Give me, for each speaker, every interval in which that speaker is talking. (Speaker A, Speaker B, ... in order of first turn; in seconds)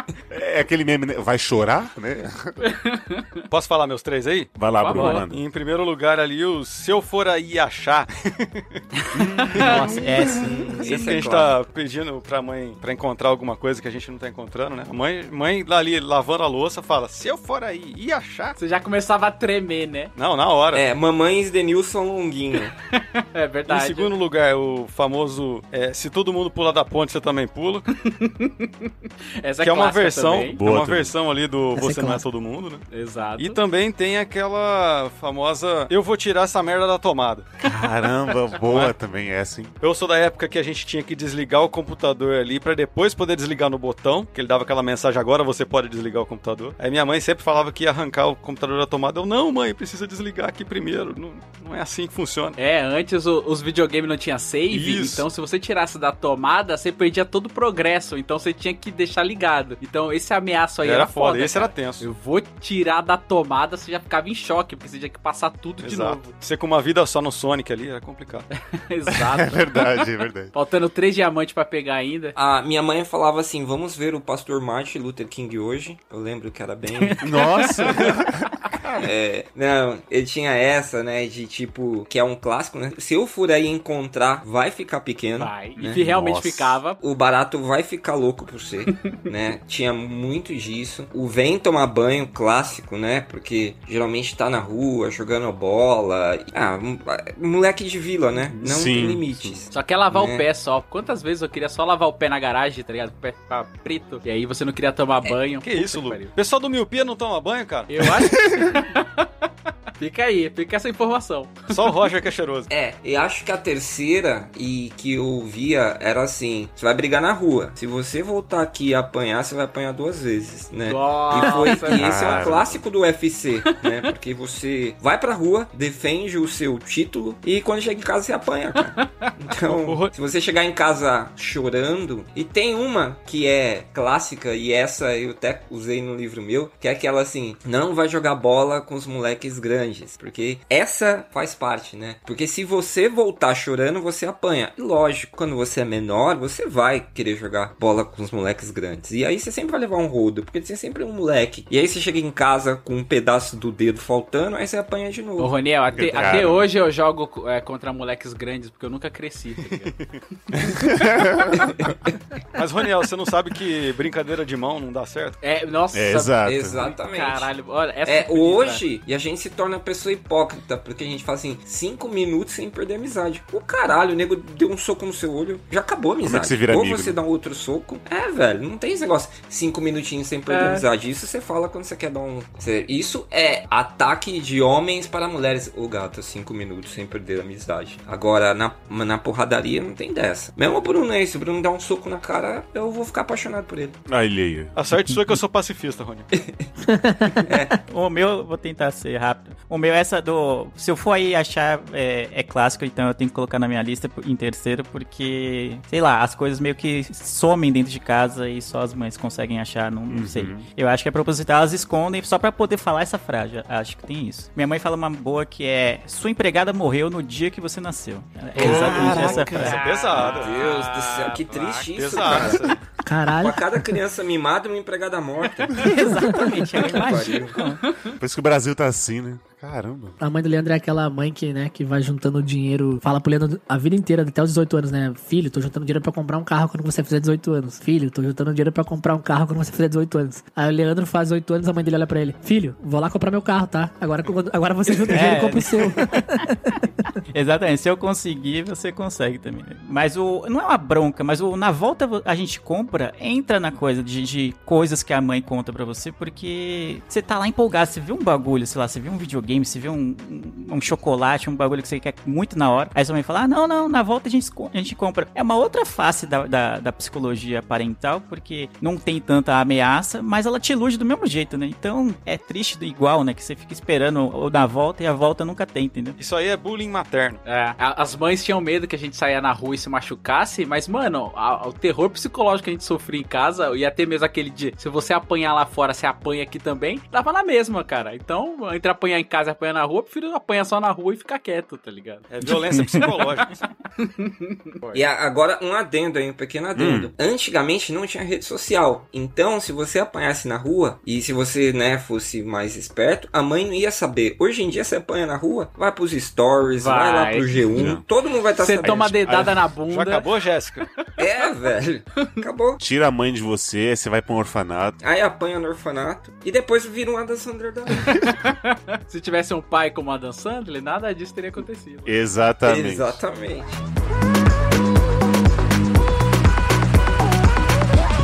Speaker A: 0.3-2.5, 4.5-5.4, 9.1-9.9, 30.5-31.1, 37.6-39.8, 69.3-70.5, 77.2-78.9, 85.8-86.8, 98.6-99.6, 121.9-122.8, 155.9-156.7, 160.5-161.6, 165.9-166.8, 176.2-177.2, 194.1-194.7, 210.1-210.7, 218.6-219.8, 228.2-230.2, 296.8-297.1, 307.7-308.0, 308.8-309.6, 312.8-315.0, 322.1-323.2
Speaker B: 2.6-3.4, 4.8-5.2, 18.6-20.1, 22.9-24.1, 28.0-30.6, 32.9-33.6, 52.6-66.3, 68.7-72.3, 85.4-87.0, 99.7-106.3, 107.9-111.9, 120.8-122.2, 155.4-159.9, 165.4-168.8, 180.5-180.8, 219.4-222.4, 277.4-292.3, 294.0-295.0, 306.7-307.6, 308.5-310.3, 318.4-322.2
Speaker C: 3.5-8.8, 9.5-9.8, 10.8-18.6, 20.1-20.8, 23.7-27.9, 29.6-32.8, 33.4-37.5, 38.7-38.9, 39.8-52.6, 54.7-55.2, 60.8-62.0, 65.8-68.5, 105.6-107.9, 111.7-112.7, 129.7-130.1, 159.8-160.2, 162.5-165.4, 194.7-196.3, 218.7-220.6, 221.9-222.8, 276.2-277.4, 292.3-293.6, 309.9-310.8
Speaker D: 9.5-10.7, 197.9-219.8, 225.8-227.8, 245.1-246.0, 247.3-276.2, 292.4-293.1
Speaker E: 10.3-11.6, 20.7-22.7, 72.3-77.2, 79.0-86.0, 87.0-100.4, 112.7-155.6, 161.6-161.9, 166.4-167.5, 168.0-194.0, 196.3-196.7, 197.4-197.7, 220.1-222.8, 223.4-225.9, 226.9-227.6, 294.9-309.2, 311.2-312.8, 315.0-318.2, 322.6-323.8
Speaker F: 31.7-32.2, 196.9-197.6, 223.0-224.0, 226.0-226.9, 230.2-246.8